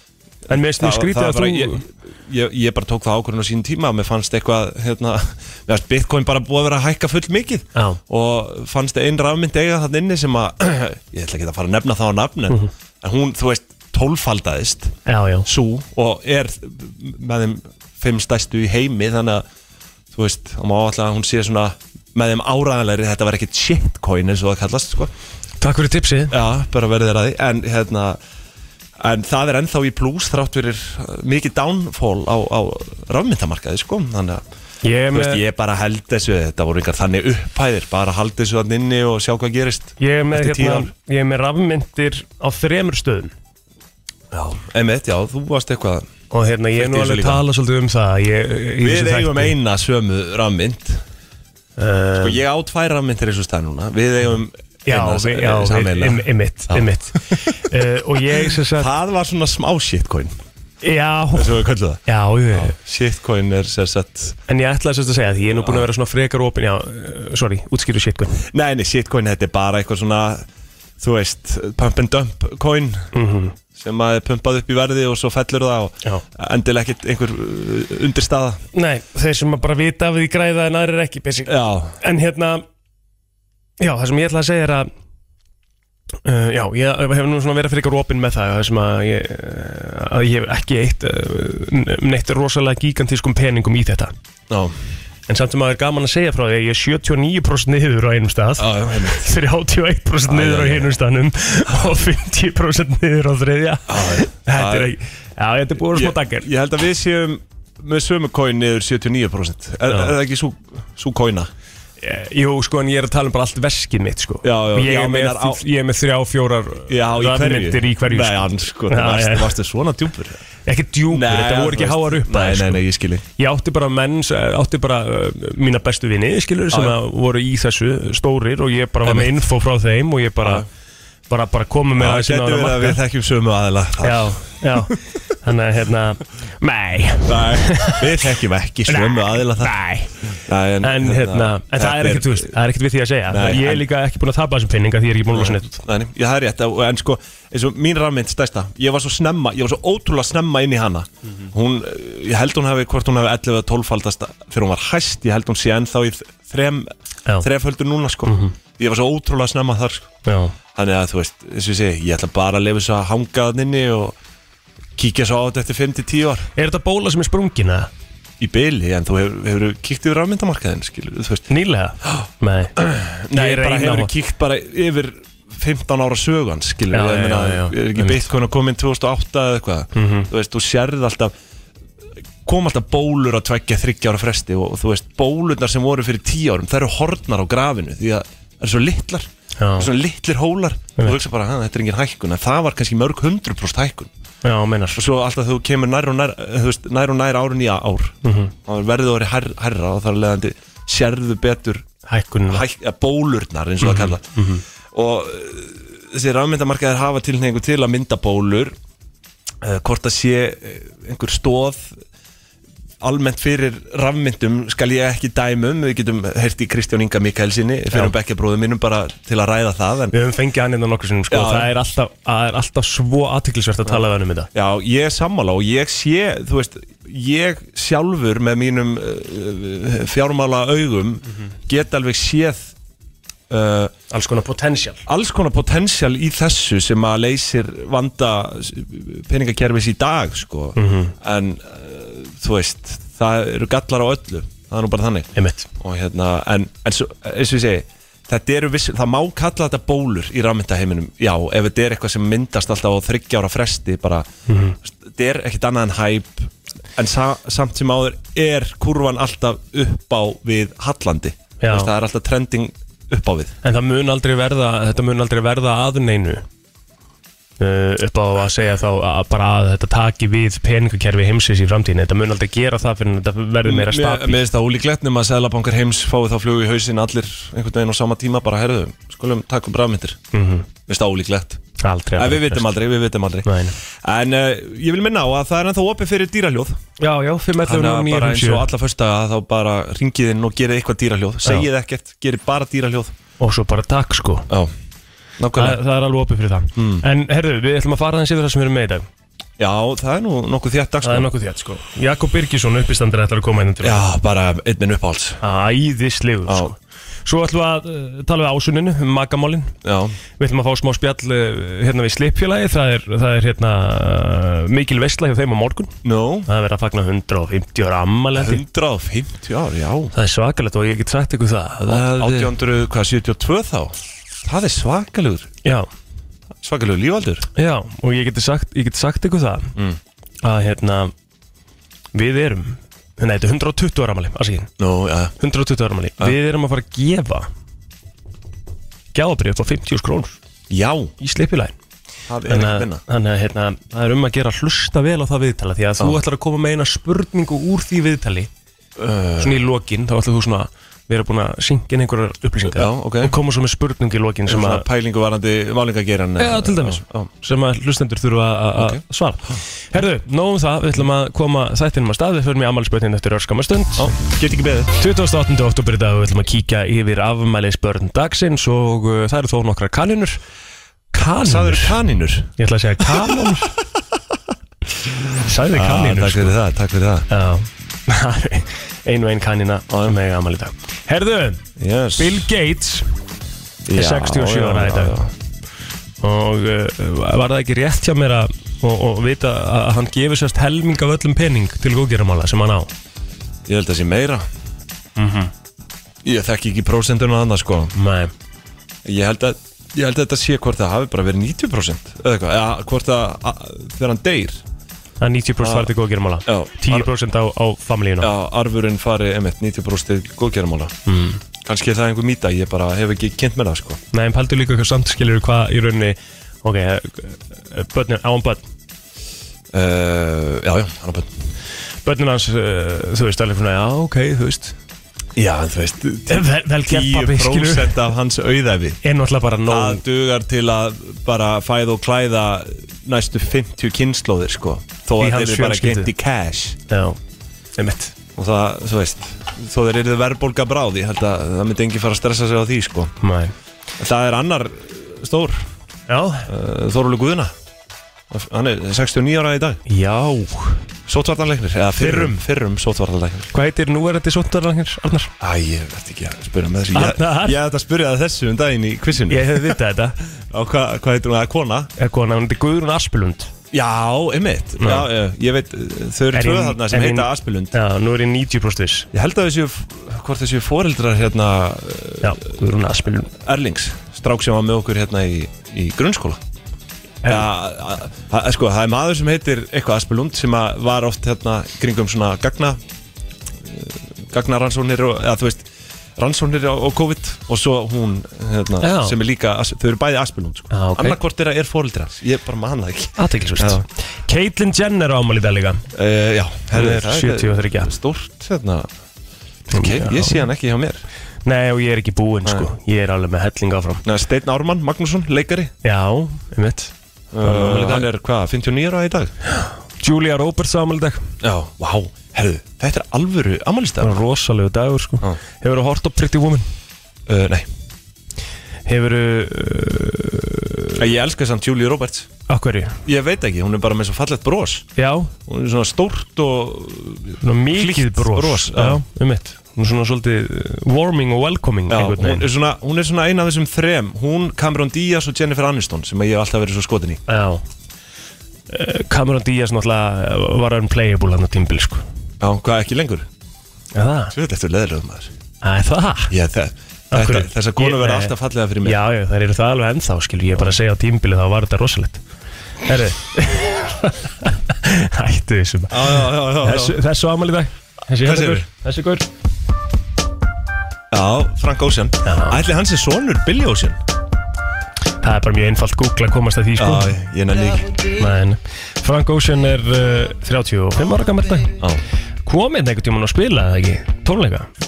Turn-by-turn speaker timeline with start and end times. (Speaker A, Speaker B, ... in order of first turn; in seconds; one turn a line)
Speaker A: 0.5-14.9
Speaker B: 0.5-1.8
Speaker B: 15.1-15.4
Speaker A: 15.4-19.4
Speaker A: 20.1-25.1
Speaker B: 25.6-26.3
Speaker A: 26.3-28.2
Speaker A: 29.0-34.4
Speaker B: 34.8-35.4
Speaker A: 35.1-40.9
Speaker B: 40.0-43.3
Speaker A: 44.3-46.1
Speaker B: 46.3-49.5
Speaker A: 46.7-47.4
Speaker A: 48.8-51.0
Speaker B: 51.8-52.4
Speaker A: 52.2-57.4
Speaker B: 54.9-58.9
Speaker A: 58.7-60.4
Speaker B: 60.8-62.7
Speaker A: 61.3-64.4
Speaker B: 64.5-68.4
Speaker A: 65.5-65.9
Speaker A: 68.5-70.4
Speaker A: 71.0-73.1
Speaker B: 73.1-73.5
Speaker A: 73.7-78.6
Speaker B: 78.7-82.6
Speaker A: 81.5-82.0
Speaker B: 83.8-84.9
Speaker B: 86.2-94.1
Speaker A: 94.5-94.8
Speaker B: 95.3-106.5
Speaker A: 98.6-99.3
Speaker A: 100.3-100.9
Speaker A: 103.9-105.0
Speaker A: 105.8-111.5
Speaker B: 109.9-110.1
Speaker B: 112.0-119.5
Speaker A: 114.4-115.6
Speaker A: 116.9-120.4
Speaker B: 120.7-122.8
Speaker A: 121.1-123.2
Speaker B: 123.4-130.6
Speaker A: 129.0-129.4
Speaker A: 130.4-130.7
Speaker B: 131.3-133.0
Speaker A: 132.0-134.4
Speaker B: 134.0-138.2
Speaker A: 137.2-139.7
Speaker B: 138.9-140.1
Speaker A: 140.3-142.5
Speaker B: 140.8-145.8
Speaker A: 143.3-143.8
Speaker A: 145.3-160.1
Speaker B: 158.2-158.5
Speaker B: 160.2-160.5
Speaker A: 160.7-164.2
Speaker A: 164.9-166.5
Speaker B: 166.6-167.9
Speaker A: 168.4-171.4
Speaker B: 171.5-172.7
Speaker A: 172.8-181.3
Speaker B: 173.3-174.1
Speaker B: 176.9-178.3
Speaker B: 179.9-180.3
Speaker A: 182.4-194.1
Speaker B: 189.6-189.9
Speaker B: 194.4-195.0
Speaker A: 194.9-201.9
Speaker B: 198.2-198.5
Speaker B: 202.1-202.6
Speaker A: 202.5-204.2
Speaker B: 203.8-204.6
Speaker A: 204.9-208.7
Speaker A: 209.6-212.0
Speaker A: 213.0-220.1
Speaker B: 220.1-224.5
Speaker A: 221.3-221.7
Speaker A: 224.5-232.7
Speaker A: 233.5-233.9
Speaker B: 234.1-235.0
Speaker A: 235.1-254.3
Speaker B: 240.8-241.1
Speaker B: 245.3-245.7
Speaker B: 254.5-254.8
Speaker A: 254.8-263.5
Speaker B: 261.6-261.9
Speaker B: 263.6-266.4
Speaker B: 267.6-274.4
Speaker A: 273.6-280.2
Speaker B: 280.3-280.7
Speaker A: 280.9-281.6
Speaker B: 281.8-282.7
Speaker A: 282.1-286.8
Speaker B: 283.4-283.7
Speaker B: 287.0-288.6
Speaker A: 287.6-293.1
Speaker B: 293.4-294.5
Speaker A: 295.4-295.8
Speaker B: 295.6-299.1
Speaker A: 296.8-297.0
Speaker A: 299.6-301.3
Speaker B: 301.0-304.0
Speaker A: 303.8-305.4
Speaker B: 305.4-309.7
Speaker A: 306.4-306.7
Speaker A: 309.8-310.1
Speaker B: 310.4-315.9
Speaker A: 316.0-316.5
Speaker B: 316.5-318.6
Speaker A: 318.3-320.1
Speaker B: 320.1-322.5
Speaker A: 321.9-325.6
Speaker A: 326.6-327.5
Speaker B: 327.6-329.7
Speaker B: 330.4-331.1
Speaker B: 332.1-334.7
Speaker A: 334.8-335.3
Speaker B: 335.4-337.5
Speaker B: 339.1-340.4
Speaker A: 340.7-341.1
Speaker B: 341.2-341.7
Speaker A: 342.3-343.0
Speaker B: 342.5-348.5
Speaker A: 349.0-349.6
Speaker B: 349.4-354.8
Speaker A: 352.7-353.4
Speaker A: 354.5-357.3
Speaker B: 356.4-364.1
Speaker A: 358.8-359.6
Speaker A: 363.9-364.9
Speaker B: 365.0-370.4
Speaker B: 371.1-371.9
Speaker A: 371.3-373.5
Speaker B: 372.6-373.7
Speaker B: 375.4-376.6
Speaker A: 375.7-377.2
Speaker B: 377.3-381.6
Speaker A: 379.9-380.1
Speaker A: 381.8-382.5
Speaker B: 382.2-383.1
Speaker A: 383.8-385.3
Speaker B: 383.9-385.2
Speaker B: 386.2-392.9
Speaker A: 393.6-394.4
Speaker B: 395.2-395.5
Speaker A: 396.2-397.9
Speaker B: 397.9-398.3
Speaker A: 399.0-404.6
Speaker B: 405.2-408.3
Speaker A: 405.6-405.9
Speaker A: 406.4-407.1
Speaker A: 408.2-410.9
Speaker B: 411.1-411.4
Speaker A: 411.6-414.0
Speaker B: 414.1-418.6
Speaker A: 419.7-421.3
Speaker B: 422.0-424.8
Speaker A: 425.4-429.0
Speaker B: 426.3-428.1
Speaker B: 429.0-430.0
Speaker A: 429.6-436.8
Speaker B: 435.2-436.1
Speaker B: 436.9-437.2
Speaker B: 437.8-438.1
Speaker A: 438.4-443.1
Speaker B: 443.2-443.5
Speaker A: 444.0-445.6
Speaker B: 446.1-446.5
Speaker A: 446.4-447.5
Speaker A: 448.3-449.8
Speaker B: 449.9-450.8
Speaker A: 451.1-453.5
Speaker B: 452.0-452.4
Speaker B: 453.5-455.3
Speaker A: 455.4-459.8
Speaker B: 456.9-457.6
Speaker B: 459.3-460.2
Speaker A: 460.3-461.9
Speaker B: 462.0-463.5
Speaker A: 463.7-467.8
Speaker B: 464.8-465.1
Speaker B: 466.3-469.1
Speaker A: 469.1-472.4
Speaker B: 472.2-473.3
Speaker A: 473.3-476.4
Speaker A: 477.2-482.8
Speaker A: 483.6-485.6
Speaker A: 486.2-493.8
Speaker B: 488.8-489.1
Speaker B: 490.7-491.2
Speaker B: 493.2-495.8
Speaker A: 495.9-498.9
Speaker B: 496.7-497.9
Speaker A: 499.7-501.0
Speaker B: 499.7-500.5
Speaker B: 501.4-504.0
Speaker A: 504.0-505.7
Speaker B: 505.8-508.1
Speaker A: 507.3-509.3
Speaker B: 509.6-511.3
Speaker A: 511.4-514.2
Speaker B: 514.0-516.6
Speaker A: 517.3-517.7
Speaker B: 518.9-520.9
Speaker A: 521.0-522.3
Speaker B: 522.5-523.0
Speaker A: 523.0-524.9
Speaker B: 525.0-525.3
Speaker A: 525.5-529.0
Speaker B: 527.4-532.5
Speaker A: 531.9-537.2
Speaker B: 537.3-537.6
Speaker B: 538.7-542.0
Speaker A: 542.4-543.3
Speaker B: 543.9-544.3
Speaker A: 544.3-545.3
Speaker B: 545.6-546.3
Speaker A: 546.3-549.0
Speaker B: 547.1-552.2
Speaker B: 552.8-559.2
Speaker A: 555.9-557.0
Speaker A: 558.2-558.6
Speaker A: 561.1-564.0
Speaker B: 562.2-562.6
Speaker B: 565.2-567.1
Speaker A: 566.8-567.9
Speaker B: 568.1-571.8
Speaker B: 572.4-574.7